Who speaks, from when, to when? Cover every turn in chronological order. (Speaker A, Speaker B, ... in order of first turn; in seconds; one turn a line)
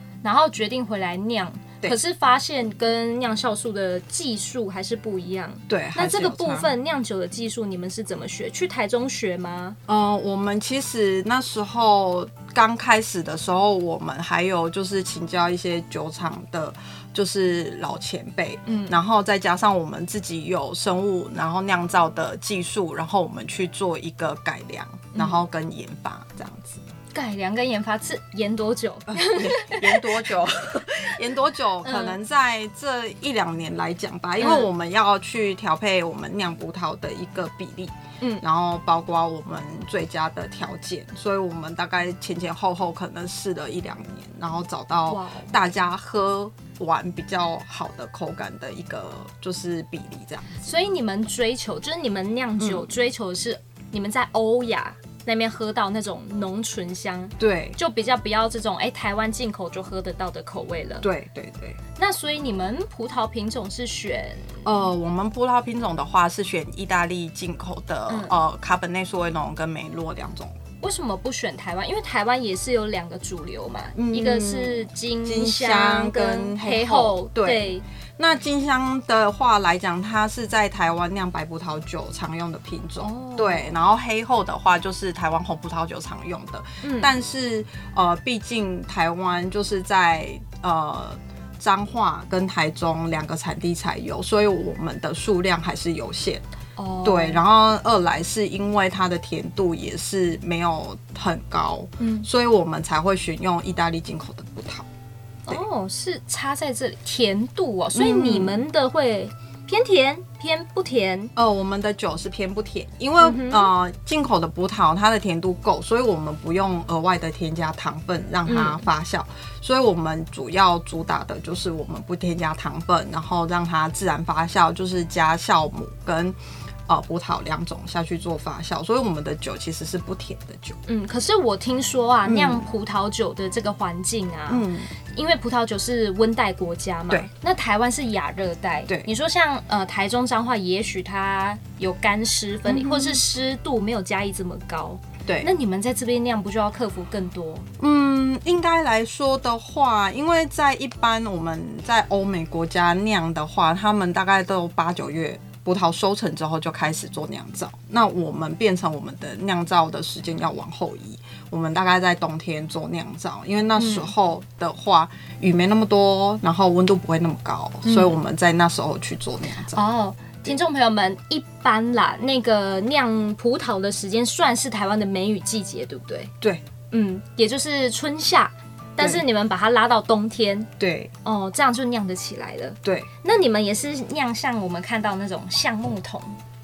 Speaker A: 0.2-9.8
Speaker B: 5.7-6.7
Speaker B: 9.9-26.8
Speaker A: 18.6-19.0
Speaker A: 25.1-25.4
Speaker A: 27.1-30.2
Speaker B: 29.1-50.7
Speaker A: 31.8-32.2
Speaker A: 34.4-34.7
Speaker A: 45.1-45.5
Speaker A: 50.6-61.0
Speaker B: 52.6-52.9
Speaker B: 57.4-57.8
Speaker B: 61.0-61.8
Speaker A: 62.0-64.6
Speaker B: 64.6-70.5
Speaker A: 68.1-68.3
Speaker A: 70.8-77.8
Speaker B: 73.9-96.4
Speaker A: 83.0-83.7
Speaker A: 86.8-87.1
Speaker A: 96.8-97.4
Speaker B: 97.0-104.9
Speaker A: 102.0-102.3
Speaker A: 105.5-111.3
Speaker B: 107.9-108.6
Speaker B: 111.3-126.3
Speaker A: 113.2-113.7
Speaker A: 118.5-118.8
Speaker B: 126.9-130.8
Speaker A: 130.9-147.6
Speaker B: 132.2-132.7
Speaker B: 134.5-134.9
Speaker B: 142.7-143.2
Speaker B: 145.2-145.5
Speaker B: 147.8-169.8
Speaker A: 163.8-164.1
Speaker A: 167.8-168.1
Speaker A: 169.7-176.3
Speaker A: 176.9-180.7
Speaker B: 180.8-181.1
Speaker A: 181.2-186.4
Speaker B: 182.8-183.1